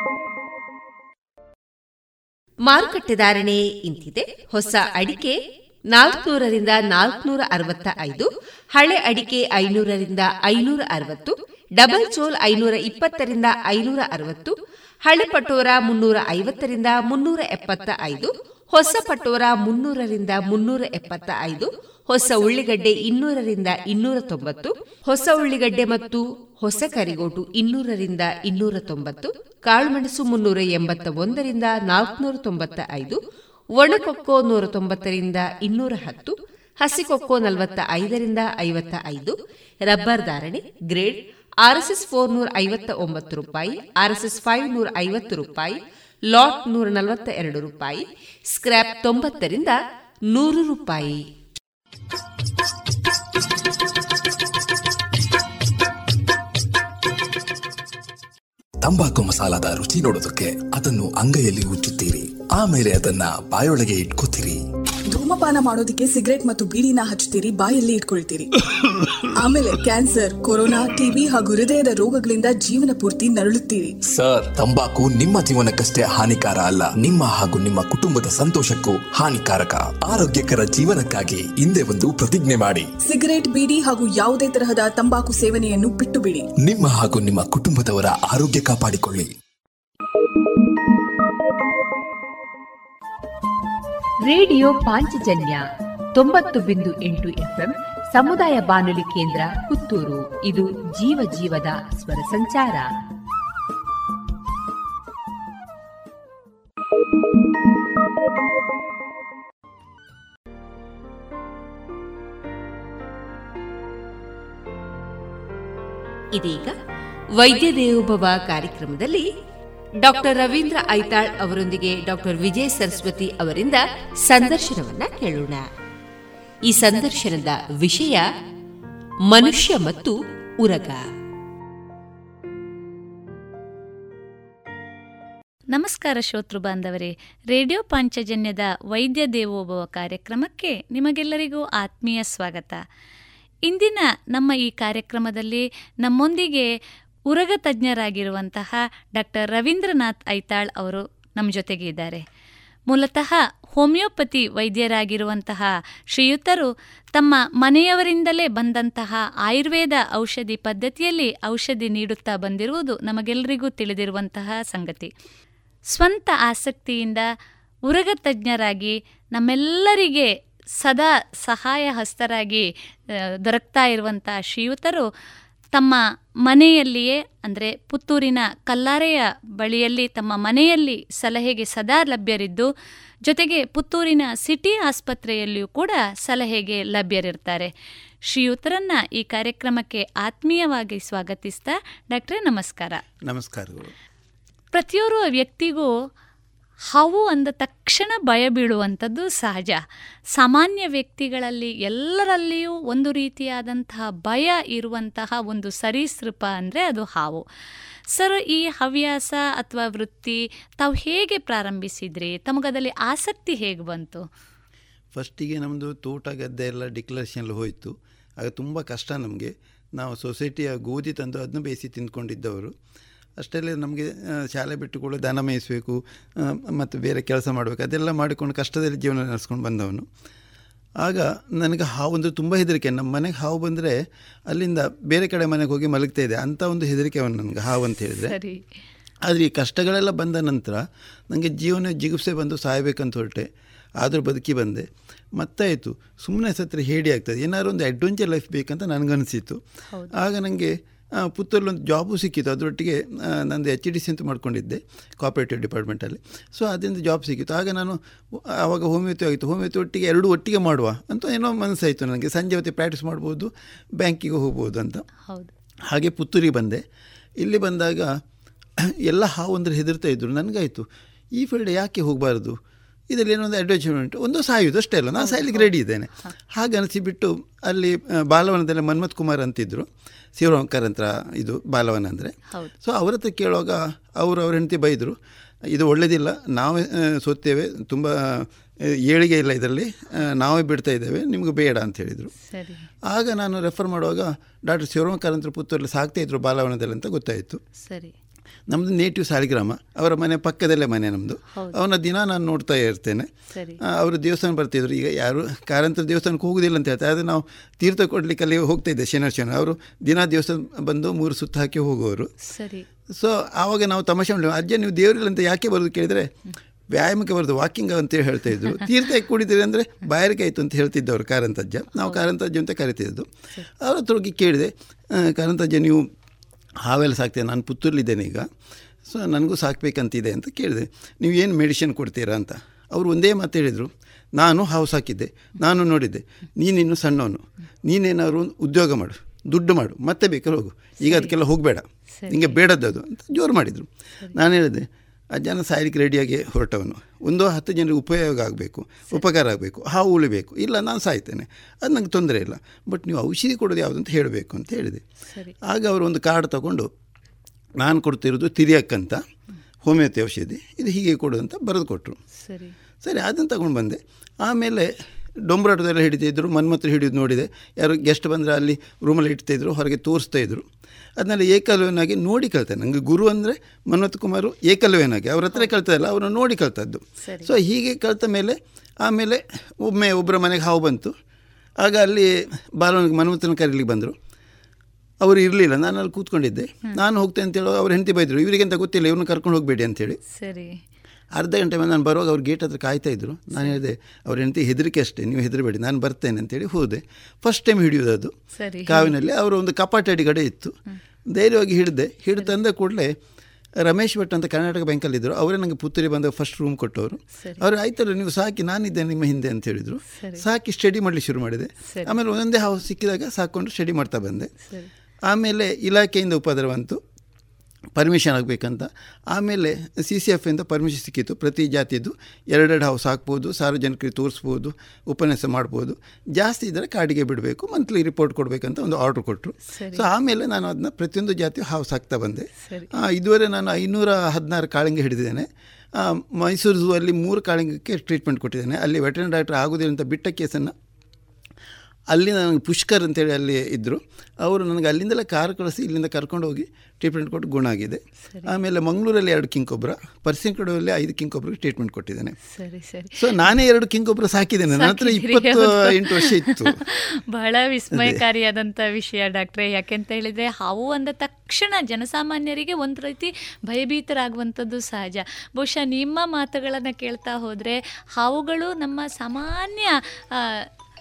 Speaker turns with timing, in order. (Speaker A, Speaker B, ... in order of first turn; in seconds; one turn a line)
Speaker A: 2.6-5.4
Speaker A: 5.9-33.2
Speaker A: 33.7-51.3
Speaker B: 58.8-64.6
Speaker C: 65.1-68.5
Speaker C: 69.3-74.0
Speaker B: 74.0-82.9
Speaker C: 83.0-86.5
Speaker B: 86.6-89.3
Speaker A: 94.2-102.9
Speaker A: 116.3-116.7
Speaker A: 117.4-119.3
Speaker A: 120.0-125.7
Speaker A: 126.7-128.2
Speaker A: 129.2-131.0
Speaker D: 135.7-142.8
Speaker D: 143.7-146.7
Speaker D: 147.3-152.2
Speaker D: 152.9-165.1
Speaker D: 165.9-167.2
Speaker D: 167.9-172.7
Speaker D: 173.4-175.1
Speaker D: 175.7-182.7
Speaker D: 183.3-187.7
Speaker D: 188.3-193.0
Speaker E: 193.2-193.9
Speaker D: 194.7-195.9
Speaker D: 196.9-199.8
Speaker D: 200.3-207.4
Speaker D: 208.1-214.2
Speaker E: 215.1-222.7
Speaker E: 223.4-230.1
Speaker E: 231.0-238.3
Speaker D: 238.2-238.6
Speaker E: 239.2-249.6
Speaker E: 250.2-265.1
Speaker D: 265.2-265.5
Speaker E: 265.9-266.8
Speaker E: 267.4-268.2
Speaker E: 268.8-272.6
Speaker E: 273.1-285.1
Speaker D: 275.2-275.7
Speaker E: 285.7-292.3
Speaker D: 292.4-292.8
Speaker E: 293.1-297.6
Speaker D: 297.8-298.1
Speaker E: 298.7-303.3
Speaker D: 303.5-303.8
Speaker E: 303.8-312.3
Speaker D: 312.5-312.9
Speaker E: 313.1-316.3
Speaker E: 316.9-323.3
Speaker D: 322.0-322.2
Speaker E: 323.8-326.1
Speaker E: 326.8-328.5
Speaker E: 329.1-355.0
Speaker D: 341.0-341.3
Speaker D: 342.2-342.6
Speaker E: 355.6-356.9
Speaker E: 357.8-359.2
Speaker E: 359.8-362.2
Speaker D: 362.4-362.8
Speaker E: 363.0-364.9
Speaker E: 365.5-370.6
Speaker E: 371.2-381.1
Speaker D: 377.2-377.5
Speaker E: 381.8-384.1
Speaker E: 385.2-390.2
Speaker D: 390.3-390.8
Speaker E: 391.4-398.3
Speaker D: 398.6-399.1
Speaker E: 398.9-400.8
Speaker E: 401.3-403.1
Speaker E: 403.8-414.5
Speaker D: 407.4-407.6
Speaker D: 410.1-410.4
Speaker D: 411.9-412.1
Speaker E: 415.3-417.0
Speaker E: 417.9-440.7
Speaker D: 429.7-430.1
Speaker D: 432.6-432.9
Speaker E: 442.1-452.4
Speaker D: 452.5-453.5
Speaker E: 453.2-456.8
Speaker D: 454.7-470.7